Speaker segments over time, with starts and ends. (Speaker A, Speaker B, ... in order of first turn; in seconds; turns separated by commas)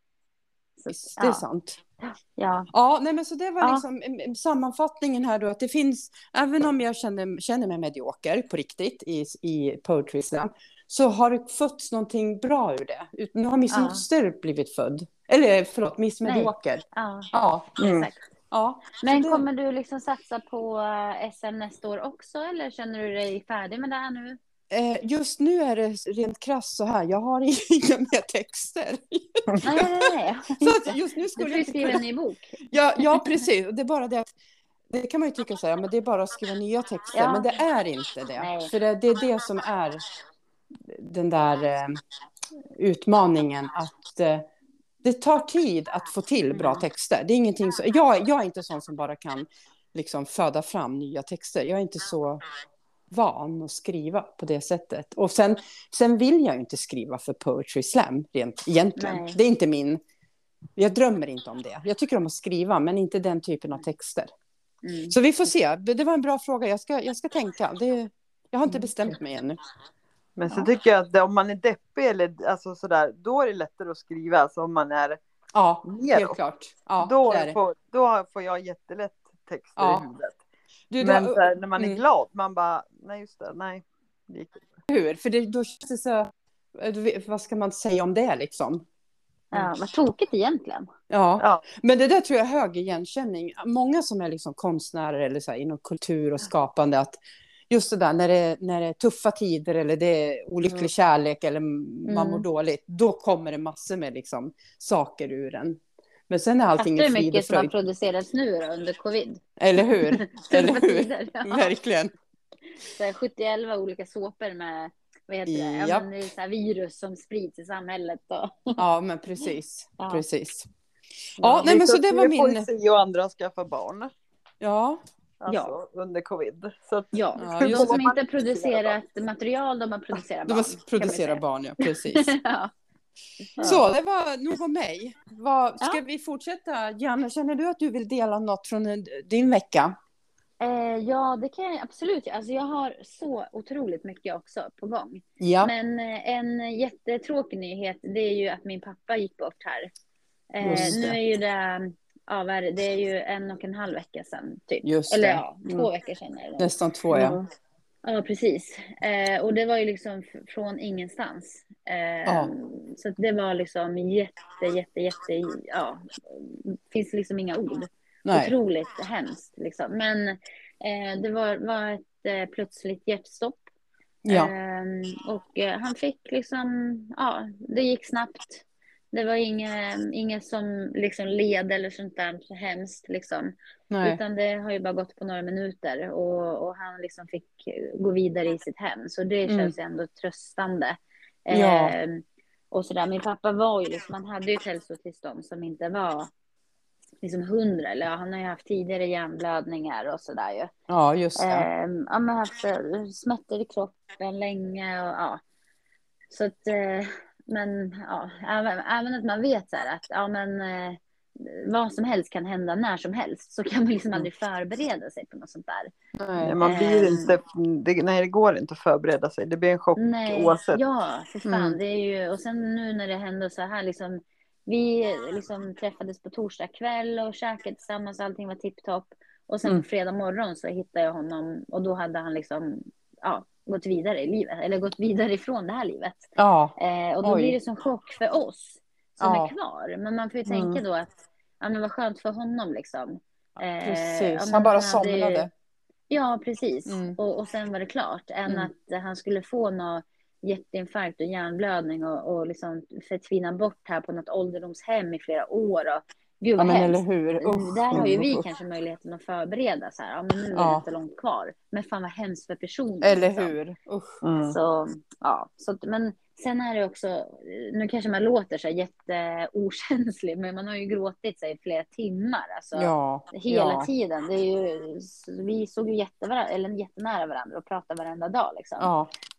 Speaker A: 0.8-1.4, Speaker B: 0.9-1.8, Speaker A: 2.0-2.7, Speaker B: 2.7-17.7, Speaker A: 13.7-14.0, Speaker A: 16.2-18.2, Speaker C: 17.8-18.1, Speaker B: 18.5-19.4, Speaker A: 19.0-24.4, Speaker B: 24.7-32.0, Speaker A: 29.6-33.5, Speaker B: 32.7-34.3, Speaker B: 34.9-40.0, Speaker A: 37.1-37.6, Speaker A: 38.4-38.7, Speaker B: 40.9-42.0, Speaker B: 42.8-44.5, Speaker B: 45.0-52.4, Speaker A: 46.5-46.8, Speaker B: 53.1-60.0, Speaker A: 59.0-59.4, Speaker B: 60.8-64.3, Speaker A: 64.8-65.2, Speaker B: 65.1-69.6, Speaker C: 70.3-75.2, Speaker B: 75.5-77.6, Speaker C: 75.8-76.4, Speaker C: 77.0-80.4, Speaker B: 79.8-80.0, Speaker B: 80.9-82.0, Speaker C: 81.0-84.7, Speaker B: 84.9-88.8, Speaker A: 89.5-90.9, Speaker B: 91.1-107.7, Speaker A: 102.1-102.4, Speaker A: 106.8-109.4, Speaker B: 109.6-112.1, Speaker A: 110.0-111.7, Speaker A: 112.8-118.8, Speaker B: 115.5-116.1, Speaker B: 118.8-120.7, Speaker A: 120.0-120.2, Speaker C: 121.4-124.1, Speaker B: 121.4-122.7, Speaker B: 124.6-125.0, Speaker C: 125.4-129.0, Speaker A: 125.5-125.7, Speaker A: 127.1-132.7, Speaker B: 127.4-128.0, Speaker B: 130.5-132.3, Speaker B: 133.6-140.0, Speaker A: 140.6-149.9, Speaker B: 145.4-145.7, Speaker A: 150.5-156.7, Speaker B: 150.6-151.2, Speaker B: 154.8-155.4, Speaker B: 156.6-157.4, Speaker C: 157.1-157.4, Speaker A: 158.0-173.6, Speaker B: 162.2-162.5, Speaker B: 168.2-168.5, Speaker B: 174.2-174.5, Speaker A: 174.3-196.3, Speaker B: 183.9-184.2, Speaker B: 189.4-189.7, Speaker B: 191.5-191.9, Speaker A: 197.2-200.7, Speaker B: 200.9-201.7, Speaker A: 201.3-205.4, Speaker A: 206.3-215.9, Speaker B: 216.2-216.6, Speaker C: 216.4-220.8, Speaker A: 216.6-217.3, Speaker A: 220.0-245.5, Speaker B: 221.4-221.8, Speaker B: 236.4-237.6, Speaker B: 239.2-239.5, Speaker C: 240.5-240.8, Speaker B: 243.8-245.5, Speaker A: 246.1-263.5, Speaker B: 246.9-247.2, Speaker B: 256.6-258.4, Speaker C: 257.9-258.2, Speaker B: 260.5-260.8, Speaker B: 263.0-264.1, Speaker C: 264.2-264.6, Speaker A: 264.4-278.9, Speaker B: 272.8-273.9, Speaker B: 278.8-279.1